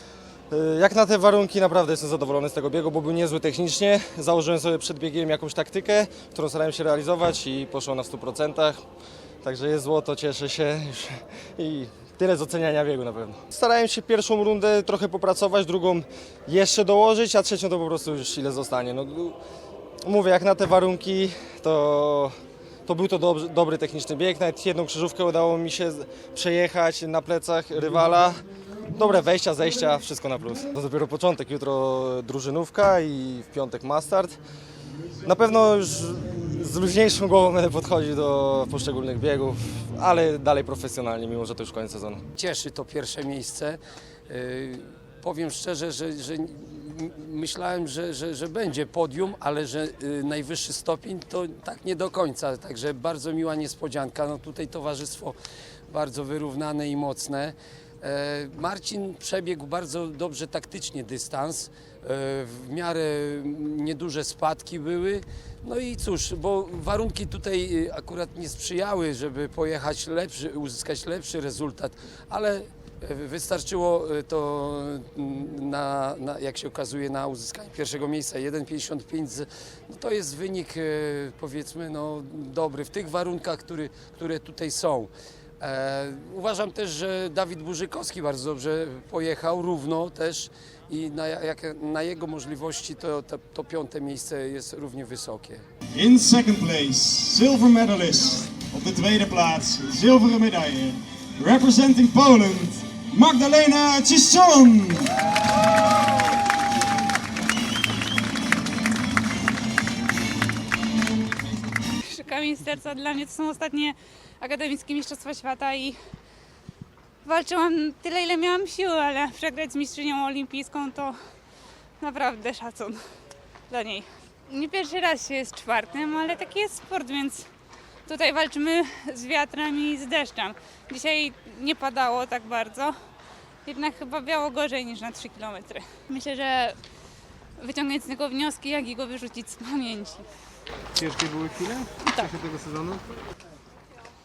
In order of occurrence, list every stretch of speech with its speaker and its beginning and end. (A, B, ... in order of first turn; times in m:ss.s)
0:00.5-0:08.8 A
0:09.4-0:19.4 A
0:20.0-0:22.3 A
0:22.9-0:34.4 A
0:35.2-0:42.2 A
0:42.4-0:55.4 B
0:55.9-1:35.6 B
1:36.0-1:45.1 C
1:52.1-1:56.0 D
1:57.2-2:01.2 D
2:02.0-2:03.0 D
2:03.7-2:07.5 D
2:08.0-2:12.9 D
2:13.6-2:16.8 D
2:17.6-2:20.2 D
2:20.9-2:23.0 E
2:22.0-2:22.5 D